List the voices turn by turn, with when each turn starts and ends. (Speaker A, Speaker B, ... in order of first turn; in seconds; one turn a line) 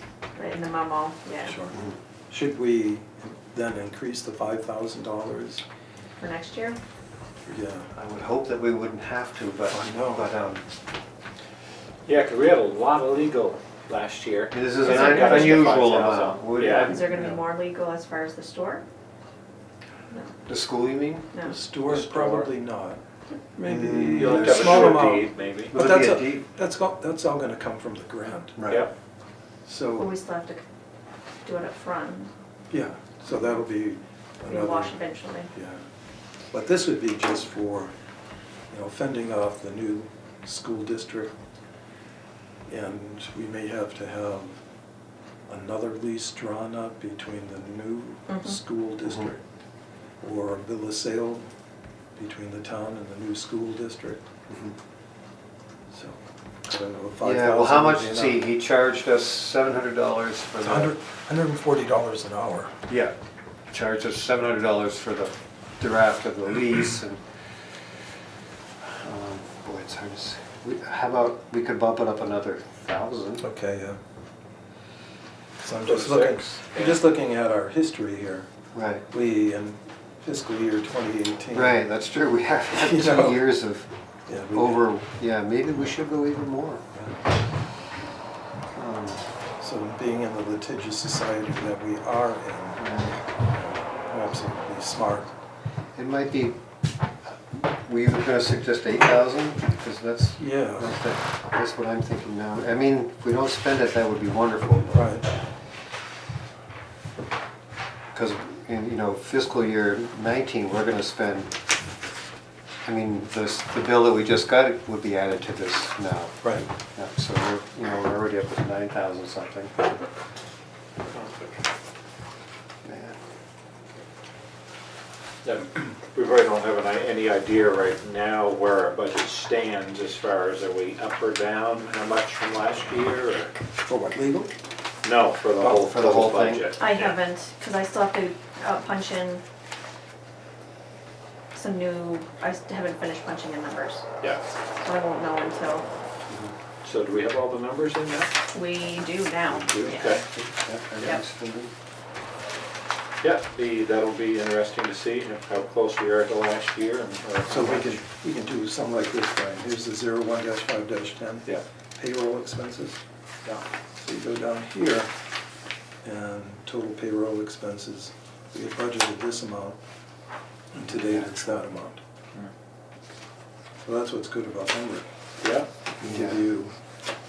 Speaker A: 0.3-1.6
Speaker B: 1.4-1.8
Speaker C: 1.7-1.9
Speaker B: 2.3-5.6
Speaker A: 6.2-6.8
Speaker B: 7.5-7.9
Speaker C: 7.9-10.6
Speaker B: 9.7-10.3
Speaker D: 12.1-17.4
Speaker C: 14.5-17.4
Speaker A: 14.8-15.7
Speaker A: 16.7-18.8
Speaker C: 20.4-21.3
Speaker B: 21.4-23.0
Speaker D: 21.8-22.5
Speaker B: 23.6-28.8
Speaker C: 23.6-25.1
Speaker D: 24.1-25.7
Speaker C: 25.7-26.5
Speaker C: 28.6-28.8
Speaker B: 29.6-30.1
Speaker A: 30.0-30.6
Speaker A: 31.4-32.3
Speaker B: 32.7-35.0
Speaker A: 34.5-35.5
Speaker B: 35.5-35.8
Speaker B: 36.5-37.9
Speaker B: 38.7-41.3
Speaker B: 42.7-44.6
Speaker B: 45.5-49.4
Speaker A: 48.3-48.6
Speaker B: 50.2-51.5
Speaker B: 52.2-54.2
Speaker C: 54.5-54.8
Speaker B: 55.9-58.5
Speaker C: 57.2-60.9
Speaker B: 60.6-62.8
Speaker C: 62.9-63.1
Speaker C: 63.7-67.2
Speaker C: 69.0-73.5
Speaker B: 73.4-74.0
Speaker B: 75.6-78.5
Speaker D: 75.8-77.0
Speaker C: 78.7-79.1
Speaker B: 79.1-81.8
Speaker C: 81.5-83.9
Speaker B: 82.7-83.4
Speaker B: 84.3-84.8
Speaker C: 84.5-86.8
Speaker B: 86.9-87.2
Speaker C: 88.7-89.3
Speaker B: 89.6-92.9
Speaker C: 92.8-93.2
Speaker B: 93.5-95.3
Speaker C: 96.0-96.6
Speaker C: 97.2-105.1
Speaker B: 100.4-101.0
Speaker B: 104.9-105.3
Speaker C: 108.1-111.5
Speaker C: 112.8-119.8
Speaker B: 116.4-116.7
Speaker D: 121.1-121.5
Speaker C: 122.8-123.2
Speaker D: 125.4-133.5
Speaker B: 133.8-134.5
Speaker D: 135.0-137.2
Speaker C: 135.6-136.7
Speaker A: 136.8-139.4
Speaker A: 141.5-144.0
Speaker A: 144.8-145.8
Speaker C: 146.3-146.5
Speaker D: 146.8-148.3
Speaker A: 148.5-150.2
Speaker B: 149.5-149.9
Speaker D: 149.8-150.2
Speaker C: 150.3-151.7
Speaker D: 153.2-158.0
Speaker B: 157.5-163.0
Speaker B: 164.0-165.1
Speaker B: 166.0-169.8
Speaker B: 170.7-172.0
Speaker C: 170.9-171.3
Speaker B: 173.8-175.1
Speaker D: 175.4-175.7
Speaker C: 176.0-176.5
Speaker B: 176.0-176.7